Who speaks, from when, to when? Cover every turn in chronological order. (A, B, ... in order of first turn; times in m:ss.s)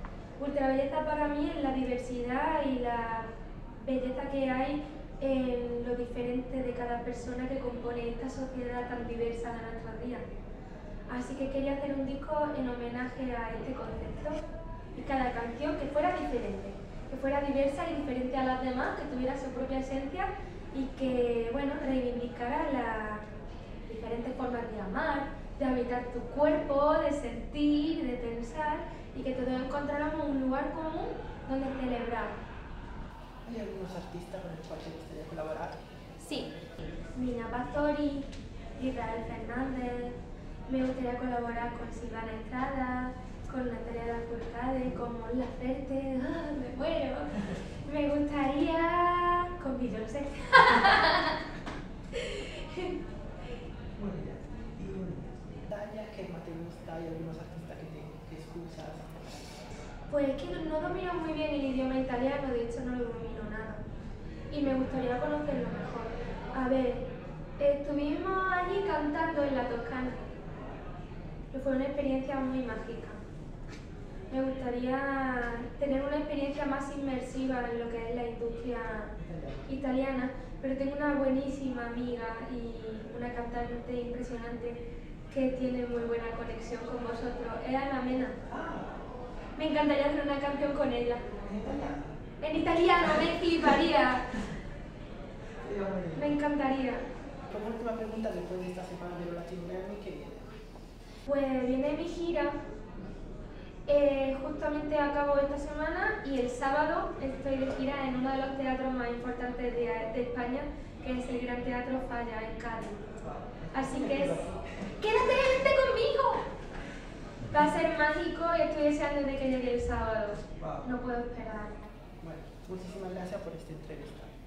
0:00.4-0:10.2 A
0:11.1-0:23.2 A
0:23.8-0:32.4 A
0:33.4-0:35.8 B
0:36.2-0:36.5 A
0:37.0-0:51.4 A
0:52.1-0:53.0 A
0:53.9-0:59.1 B
1:00.1-1:03.8 A
1:04.5-1:07.1 A
1:07.6-1:10.2 A
1:11.5-1:13.2 A
1:14.3-1:19.1 A
1:19.2-1:19.7 B
1:19.6-1:24.8 A
1:25.3-1:28.4 A
1:28.5-1:29.2 B
1:29.6-1:31.2 A
1:31.4-1:32.2 B
1:32.4-1:34.5 A
1:35.6-1:36.4 B
1:36.1-1:37.1 A
1:37.5-1:40.5 B
1:41.2-1:42.6 A
1:43.9-1:53.1 A
1:53.2-1:54.9 B
1:53.7-1:56.5 A
1:57.5-2:01.9 A
2:00.6-2:00.9 B
2:02.2-2:04.3 B